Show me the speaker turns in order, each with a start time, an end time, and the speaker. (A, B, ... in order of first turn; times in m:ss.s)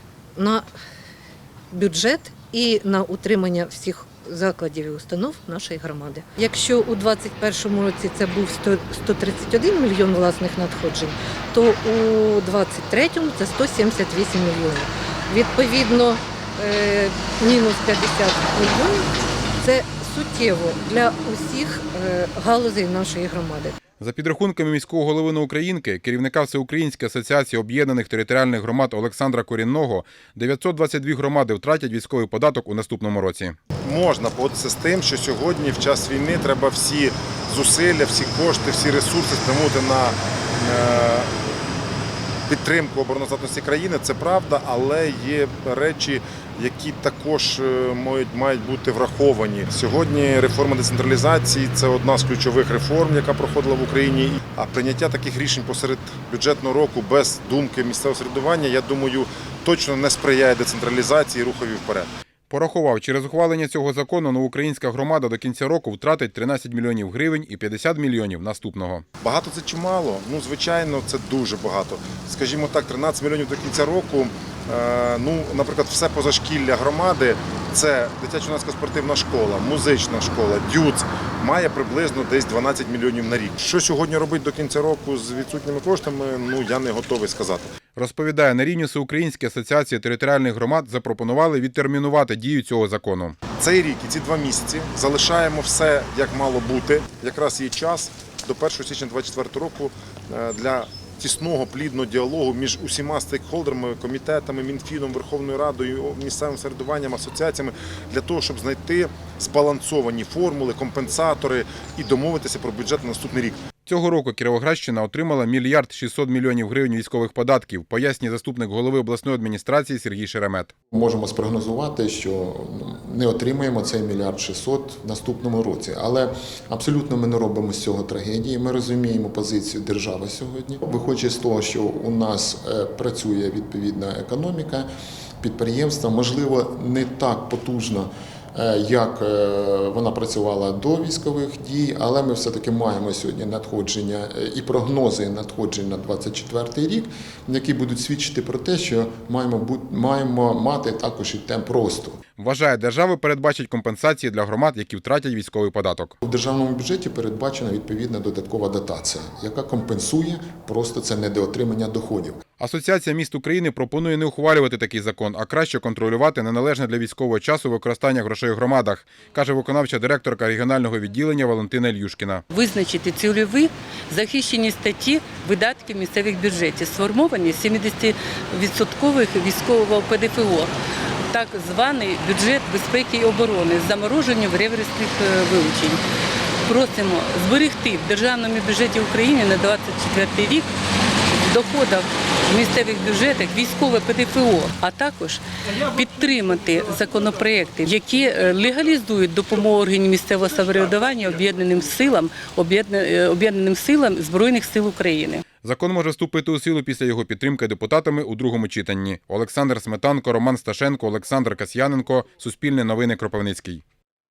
0:00.4-0:00.6 A
0:01.7-0:23.8 A
0:24.0-0:33.6 B
0:33.8-0:41.3 C
0:42.5-1:02.1 C
1:02.5-1:09.0 B
1:09.2-1:27.7 C
1:27.9-1:33.4 B
1:33.6-1:53.6 C
1:53.8-2:00.7 B
2:00.9-2:14.9 D
2:15.4-2:32.2 D
2:32.4-2:36.1 B
2:36.2-2:42.4 D
2:42.6-2:52.4 B
2:52.5-3:00.7 E
3:01.3-3:06.0 E
3:06.6-3:10.7 E
3:11.3-3:25.4 E
3:25.6-3:33.8 B